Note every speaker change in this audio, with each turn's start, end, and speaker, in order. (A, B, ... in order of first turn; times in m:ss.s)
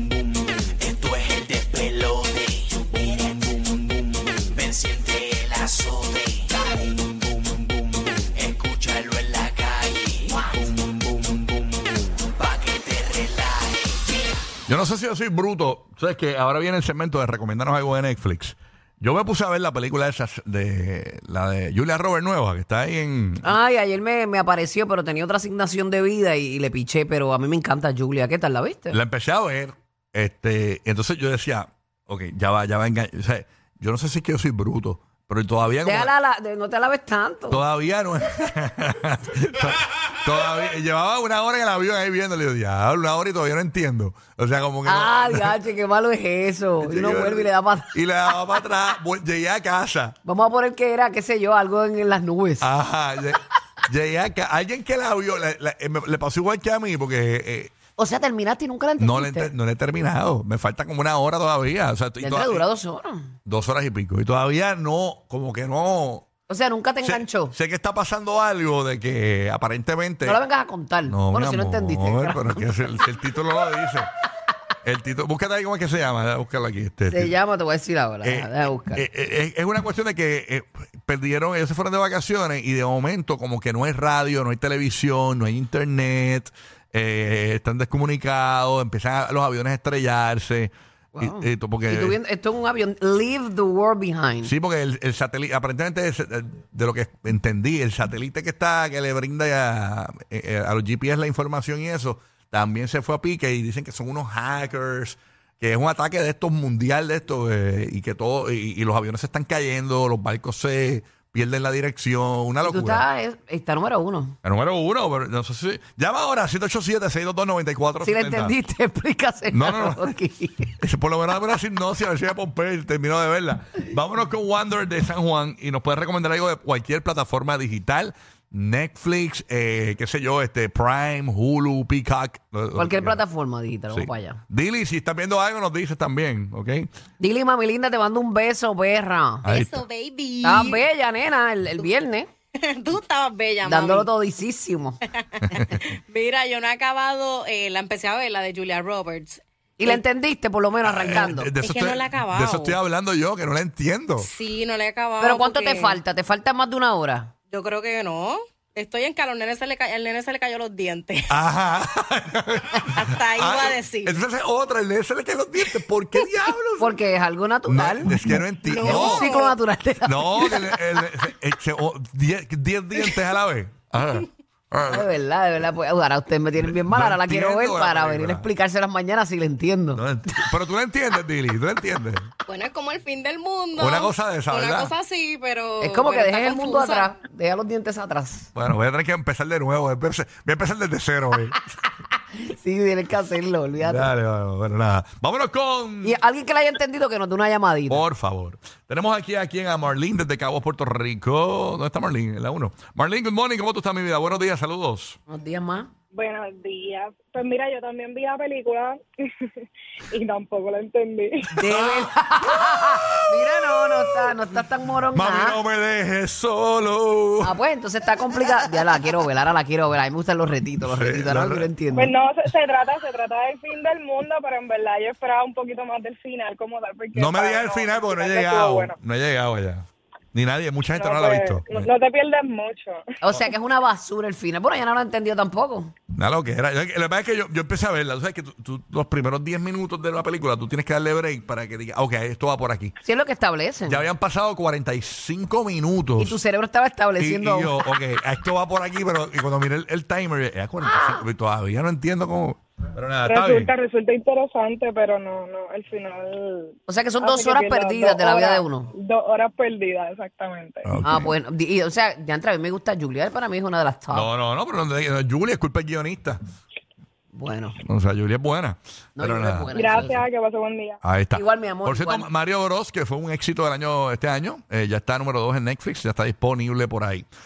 0:00.8-0:03.4 A
0:04.4-0:06.6 A
0:08.3-0:10.7 A
0:12.2-0:13.8 A
0:14.7-0:23.5 B
0:23.4-0:29.0 C
0:28.9-0:36.1 B
0:35.8-0:37.6 C
0:37.5-0:45.6 B
0:44.8-0:47.9 C
0:46.8-0:50.2 B
0:50.2-0:52.7 C
0:52.6-0:57.7 B
0:58.0-0:59.5 C
0:59.0-1:02.6 B
1:02.2-1:03.3 C
1:03.4-1:06.3 B
1:06.5-1:07.5 C
1:07.0-1:10.4 B
1:10.2-1:13.0 C
1:11.1-1:14.1 B
1:14.8-1:17.3 B
1:17.1-1:19.0 C
1:18.2-1:32.2 B
1:31.1-1:34.5 C
1:34.4-1:53.0 B
1:52.6-1:54.4 C
1:54.4-1:58.5 B
1:58.0-2:00.7 C
1:59.5-2:00.1 B
2:00.8-2:13.2 B
2:12.8-2:14.4 C
2:13.9-2:16.9 B
2:17.2-2:19.4 C
2:19.4-2:20.8 D
2:19.4-2:19.8 B
2:20.4-2:22.3 C
2:22.7-2:24.1 D
2:23.6-2:25.0 C
2:25.1-2:30.0 D
2:25.5-2:25.8 B
2:29.8-2:31.5 C
2:30.8-2:34.3 B
2:31.1-2:32.8 D
2:34.2-2:36.0 D
2:35.2-2:37.3 C
2:37.5-2:41.4 D
2:41.3-2:47.0 B
2:42.9-2:44.2 D
2:46.8-2:51.0 C
2:47.7-2:49.3 B
2:48.6-2:49.6 D
2:50.0-2:55.1 B
2:54.9-3:00.0 C
2:56.6-2:58.5 B
2:59.9-3:02.3 B
3:02.5-3:07.1 D
3:03.8-3:04.9 B
3:05.8-3:08.5 C
3:08.5-3:11.6 B
3:12.4-3:14.1 C
3:13.8-3:16.2 B
3:16.0-3:18.0 C
3:17.9-3:25.2 B
3:25.3-3:25.9 C
3:26.1-3:29.0 E
3:29.6-3:31.6 E
3:31.6-3:35.6 C
3:31.6-3:32.1 B
3:32.9-3:34.3 B
3:35.1-3:37.6 B
3:37.4-3:42.1 C
3:40.9-3:41.7 B
3:41.9-3:49.0 E
3:47.1-3:51.9 B
3:50.9-3:53.4 E
3:53.2-3:55.9 C
3:56.1-4:02.9 B
4:03.0-4:04.0 C
4:03.9-4:06.4 B
4:06.2-4:07.8 C
4:07.2-4:13.7 B
4:10.8-4:11.2 C
4:13.2-4:21.0 E
4:16.9-4:18.9 C
4:20.8-4:21.3 B
4:21.0-4:24.3 C
4:24.1-4:26.4 B
4:27.3-4:27.8 C
4:27.8-4:30.1 B
4:29.2-4:30.2 C
4:29.7-4:31.0 E
4:31.0-4:37.3 B
4:31.3-4:32.3 C